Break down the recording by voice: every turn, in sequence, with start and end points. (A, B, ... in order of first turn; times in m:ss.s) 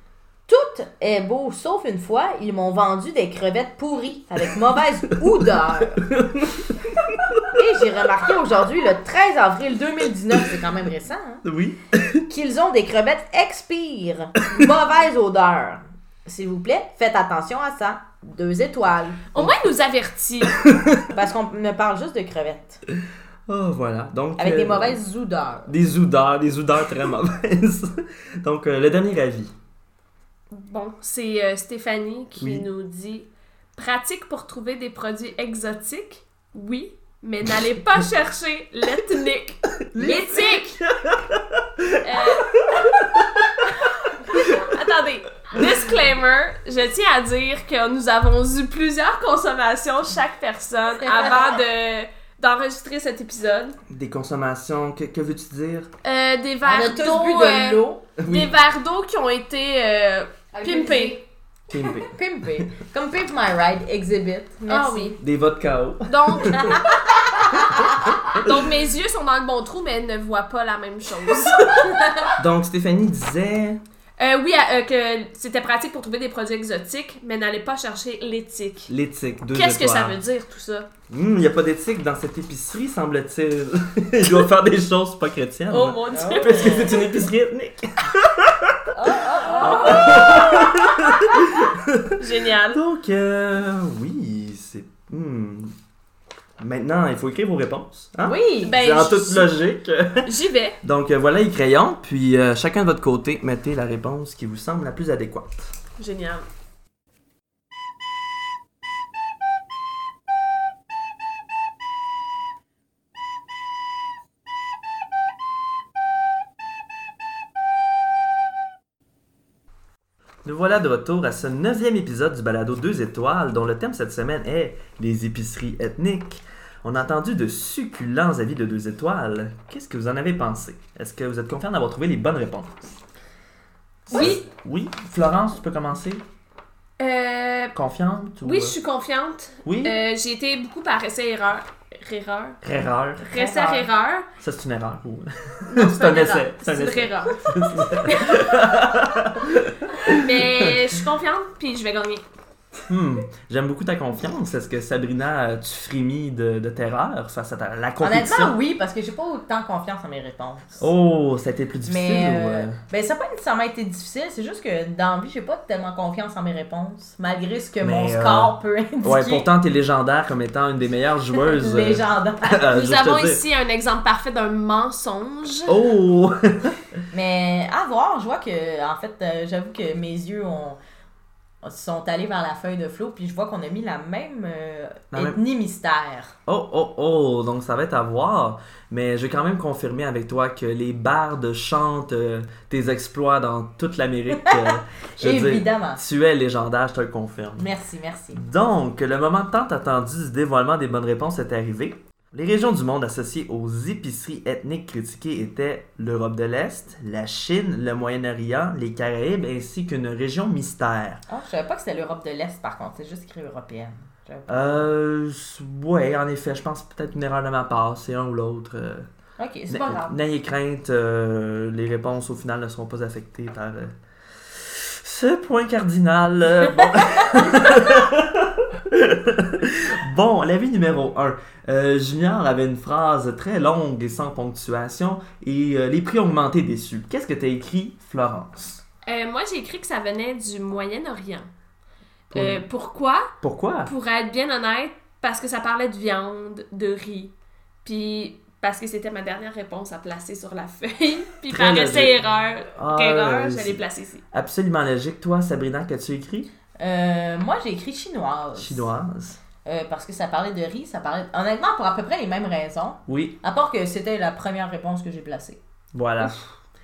0:00.5-0:06.1 A
0:06.0-0:07.6 B
0:07.5-0:11.4 A
0:11.4-0:12.2 B
0:12.3-0:19.6 A
0:19.3-0:20.6 C
0:20.6-0:21.0 B
0:21.1-0:22.8 A
0:23.5-0:25.0 B
0:24.4-0:25.7 A
0:25.7-0:29.5 B
0:30.5-0:40.8 C
0:32.4-0:32.7 B
0:39.9-0:43.7 B
0:42.0-0:42.9 C
0:44.3-0:53.8 C
0:51.0-0:51.6 A
0:53.9-0:55.9 B
0:56.0-1:01.2 C
0:56.6-0:58.0 A
0:58.2-0:58.5 B
1:00.5-1:01.2 A
1:01.7-1:02.1 B
1:02.1-1:05.2 A
1:04.7-1:05.2 C
1:05.2-1:06.9 B
1:06.1-1:06.9 C
1:06.6-1:08.1 A
1:07.5-1:08.4 B
1:08.3-1:11.9 C
1:11.8-1:12.3 A
1:12.4-1:13.8 B
1:14.2-1:18.9 C
1:18.9-1:20.2 B
1:19.5-1:20.9 C
1:21.1-1:28.9 B
1:25.7-1:27.0 C
1:26.1-1:27.0 A
1:28.9-1:31.0 A
1:29.4-1:30.6 C
1:29.6-1:32.2 B
1:32.2-1:32.8 C
1:32.7-1:35.7 B
1:36.6-1:40.3 B
1:38.2-1:38.8 A
1:38.6-1:39.5 C
1:40.2-1:40.8 C
1:40.8-1:45.8 B
1:46.0-1:46.5 C
2:00.4-2:12.8 B
2:14.1-2:14.4 C
2:14.1-2:16.2 B
2:17.0-2:17.8 C
2:17.8-2:18.8 B
2:18.4-2:22.6 C
2:19.6-2:20.0 B
2:22.6-2:23.3 B
2:23.2-2:24.3 C
2:23.3-2:23.9 A
2:24.4-2:30.8 B
2:25.7-2:28.4 C
2:30.1-2:32.2 C
2:32.9-2:38.6 B
2:38.0-2:40.9 A
2:40.8-2:42.8 B
2:41.8-2:49.5 A
2:47.8-2:53.4 B
2:51.3-2:52.7 A
2:52.7-2:55.7 C
2:55.7-2:56.8 B
2:57.1-3:00.8 A
3:01.6-3:06.4 A
3:05.1-3:05.4 B
3:06.5-3:17.7 B
3:14.4-3:16.0 A
3:17.6-3:18.4 A
3:18.3-3:31.2 B
3:31.3-3:34.9 A
3:34.5-3:39.1 B
3:39.4-3:40.2 A
3:39.7-3:43.9 B
3:44.5-3:58.8 B
3:47.1-3:47.4 A
3:59.1-4:01.5 C
4:02.3-4:03.3 C
4:02.3-4:02.6 B
4:03.4-4:03.9 B
4:03.8-4:07.3 C
4:07.8-4:14.2 C
4:11.5-4:12.2 B
4:12.7-4:13.8 B
4:14.3-4:16.5 B
4:16.8-4:18.9 A
4:18.6-4:19.4 B
4:19.6-4:25.6 A
4:23.1-4:23.4 B
4:25.9-4:26.6 B